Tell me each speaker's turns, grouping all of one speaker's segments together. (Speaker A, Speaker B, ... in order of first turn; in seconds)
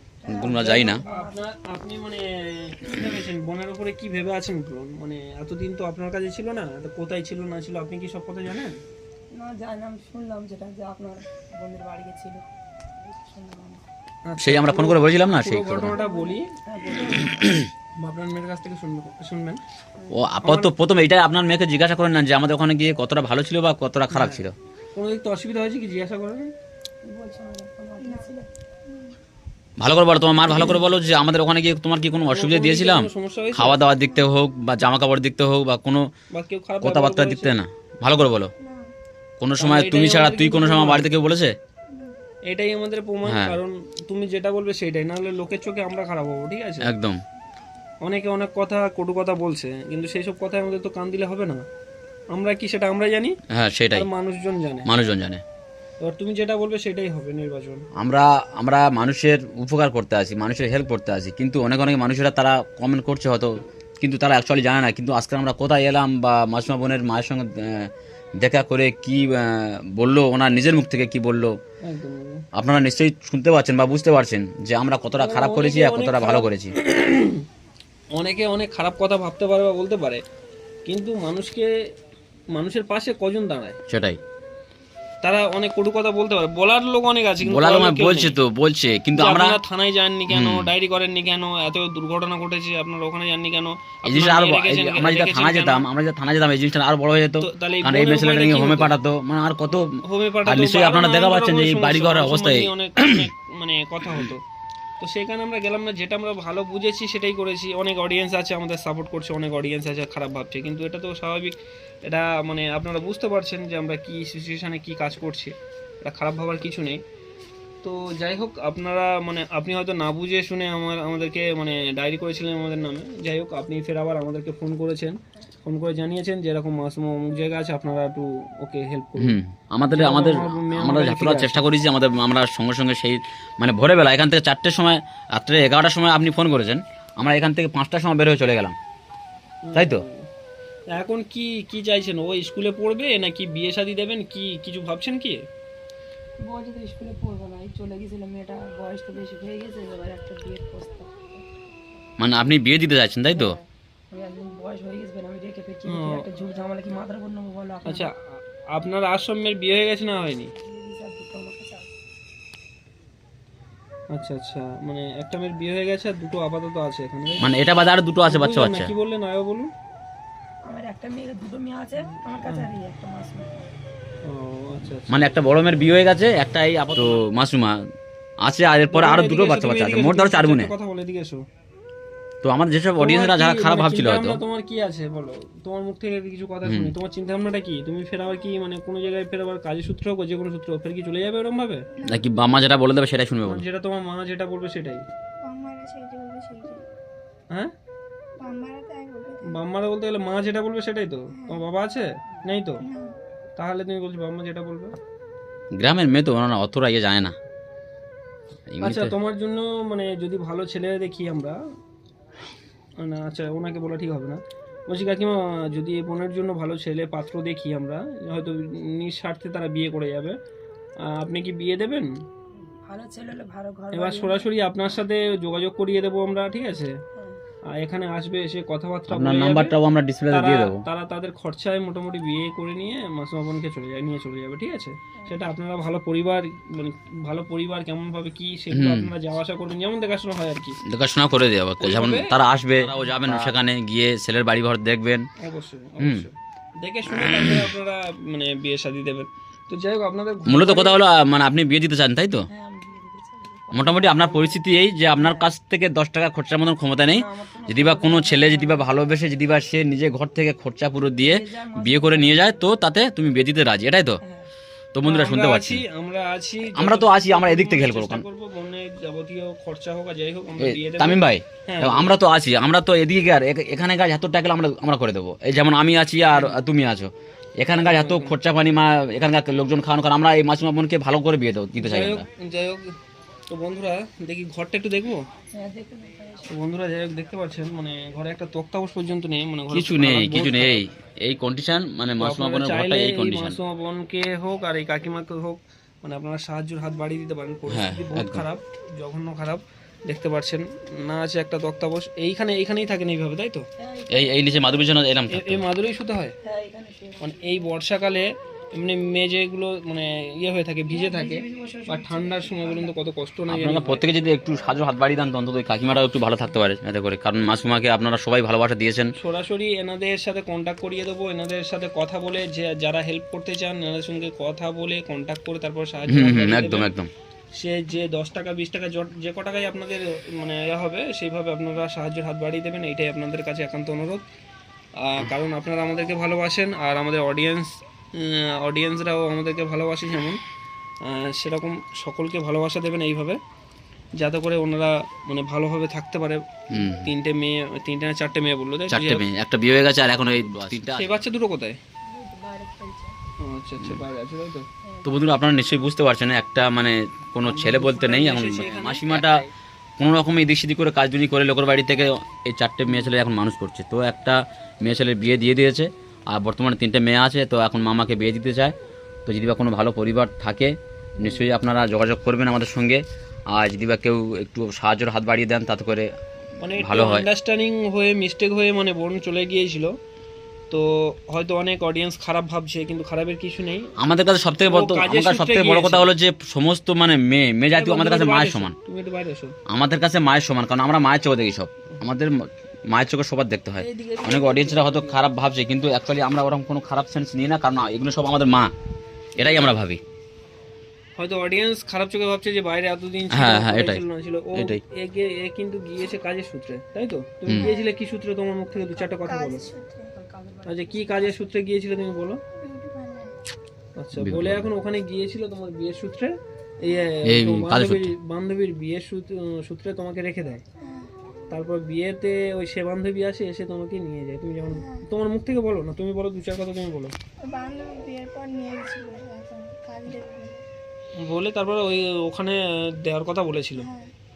Speaker A: 0.2-1.4, 9.3-12.4, 13.0-13.8, 15.9-17.4, 27.1-28.5, 146.4-151.6, 153.3-158.1, 160.6-161.9, 170.7-173.7, 222.9-224.5, 227.1-227.4, 252.5-255.5, 257.1-258.9, 261.2-262.7, 264.2-264.5, 285.6-286.5, 303.8-304.7, 306.4-307.6, 310.9-313.0, 352.1-353.1, 354.8-355.2, 410.1-411.5
Speaker B: 0.3-1.0, 14.4-16.0, 17.1-17.7, 20.1-24.5, 29.8-36.0, 36.8-38.5, 39.4-41.5, 43.2-43.6, 46.8-47.2, 53.5-54.1, 54.9-55.4, 58.0-71.5, 72.5-76.7, 83.9-84.2, 87.4-89.6, 90.3-90.7, 94.0-103.3, 129.2-138.7, 139.7-140.0, 152.2-153.6, 167.4-168.9, 175.1-177.8, 178.4-180.7, 182.4-184.4, 186.6-186.9, 192.0-193.6, 205.8-207.3, 208.7-209.1, 229.1-230.8, 238.7-239.1, 240.8-245.2, 247.1-247.6, 250.4-252.5, 253.7-264.2, 264.9-265.8, 266.6-268.2, 270.6-282.2, 289.7-293.6, 297.7-298.4, 304.1-305.6, 313.5-319.1, 326.1-327.1, 346.7-347.1, 348.9-351.2, 355.0-359.4, 360.0-368.7, 369.2-373.0, 373.5-376.1, 376.8-377.3, 384.0-388.7, 389.7-392.4, 392.9-398.7, 399.4-400.0, 403.3-404.0, 404.5-404.8, 407.4-407.7, 414.2-414.7, 417.2-418.1
Speaker C: 1.1-8.8, 14.2-16.5, 18.0-19.6, 20.4-20.7, 24.1-26.5, 32.3-33.8, 36.3-37.6, 39.6-41.1, 42.5-46.9, 48.0-51.6, 52.3-53.4, 53.9-54.9, 56.0-57.9, 71.8-72.4, 75.1-77.5, 78.1-80.2, 80.8-81.7, 82.5-83.8, 85.2-88.4, 89.1-95.9, 97.4-99.0, 100.0-104.4, 105.0-117.0, 117.8-129.4, 129.9-131.7, 139.6-140.3, 140.9-145.4, 155.8-156.2, 157.8-158.1, 158.7-160.5, 164.1-167.5, 168.2-169.7, 172.0-172.7, 174.2-175.3, 178.9-181.4, 182.9-191.9, 193.4-195.1, 199.5-202.8, 203.6-204.9, 208.8-211.6, 213.0-220.4, 221.0-222.1, 223.9-227.0, 227.7-229.8, 230.3-240.8, 241.8-243.5, 245.4-251.0, 265.0-272.2, 276.3-276.6, 277.7-278.4, 281.8-282.9, 283.5-285.2, 286.5-290.9, 292.2-303.7, 305.3-306.3, 307.2-314.1, 319.2-326.9, 327.5-334.2, 335.0-340.4, 341.0-343.4, 344.1-349.3, 350.7-351.8, 353.4-354.7, 357.4-359.5, 371.2-371.5, 376.6-379.9, 380.7-383.9, 384.6-386.1, 387.7-389.6, 393.8-395.2, 399.4-399.8, 401.1-409.7, 410.6-412.4, 413.9-420.6, 421.5-427.1, 431.2-433.9
Speaker D: 28.0-28.3, 28.9-29.2, 33.9-34.3, 38.6-38.9, 41.9-42.1, 191.9-192.3, 195.4-196.8, 198.4-199.6, 201.3-201.6, 202.8-203.1, 407.5-407.9, 409.2-410.1, 412.6-413.4, 416.9-417.1, 420.8-421.1, 424.7-425.0, 427.4-430.6, 433.8-434.1